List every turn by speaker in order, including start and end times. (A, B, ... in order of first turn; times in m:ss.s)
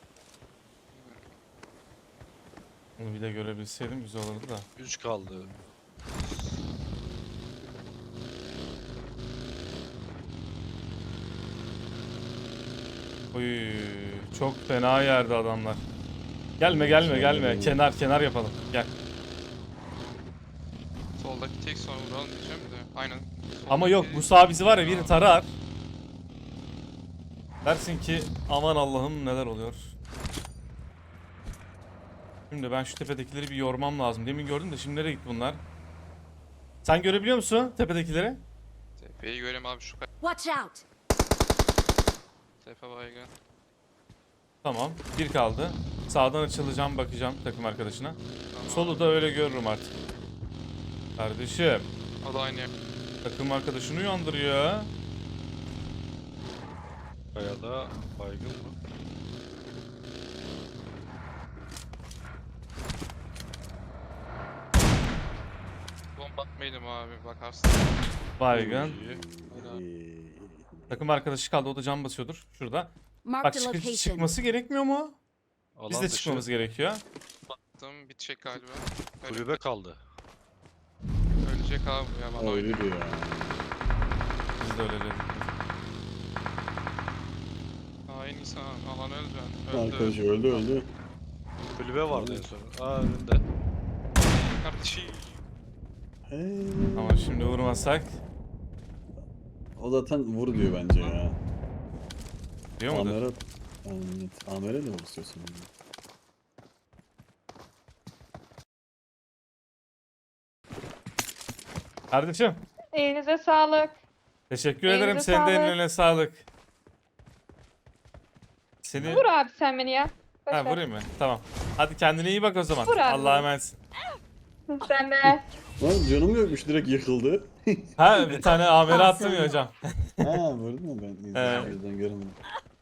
0:00.9-0:01.2 A
0:03.0-0:04.7 B
0:04.8-0:05.5 C
0:05.3-0:05.6 D
0:06.1-0:06.5 C
0:13.3-0:15.8 B
0:16.6-0:18.9 B
0:16.7-0:17.8 D
0:21.2-0:25.2 A
0:23.7-0:25.5 B
0:27.6-0:29.9 B
0:32.5-0:35.6 B
0:36.8-0:38.4 B
0:39.0-0:40.1 A
0:40.2-0:40.8 E
0:42.6-0:43.3 A
0:44.6-0:49.9 B
0:48.5-0:49.2 A
0:51.2-0:51.9 B
0:52.2-0:52.7 A
0:53.2-0:54.9 B
0:57.3-0:58.7 C
1:06.2-1:08.0 A
1:08.4-1:09.0 B
1:08.5-1:11.0 D
1:08.6-1:09.2 C
1:09.5-1:09.8 A
1:10.9-1:15.2 B
1:13.2-1:14.3 E
1:15.8-1:16.4 C
1:15.9-1:17.0 B
1:17.5-1:19.6 A
1:19.2-1:20.0 C
1:21.4-1:23.0 A
1:22.4-1:23.6 D
1:24.6-1:25.5 B
1:28.1-1:30.7 A
1:29.7-1:30.9 D
1:31.7-1:33.4 C
1:32.1-1:32.4 D
1:34.2-1:35.4 A
1:36.2-1:37.9 D
1:37.0-1:38.2 B
1:39.8-1:41.4 D
1:40.5-1:41.2 A
1:42.8-1:43.2 B
1:42.9-1:45.7 D
1:52.1-1:52.6 B
1:52.9-1:54.0 F
1:54.5-1:56.4 B
1:54.8-1:55.8 F
1:58.8-1:59.3 B
1:58.9-1:59.2 D
1:59.1-2:00.8 F
2:00.5-2:03.8 B
2:02.8-2:03.5 F
2:04.7-2:05.4 F
2:05.8-2:08.0 D
2:08.0-2:10.4 B
2:08.2-2:08.6 C
2:08.9-2:09.5 F
2:09.1-2:09.5 E
2:10.2-2:12.4 D
2:11.3-2:11.7 B
2:11.4-2:11.8 C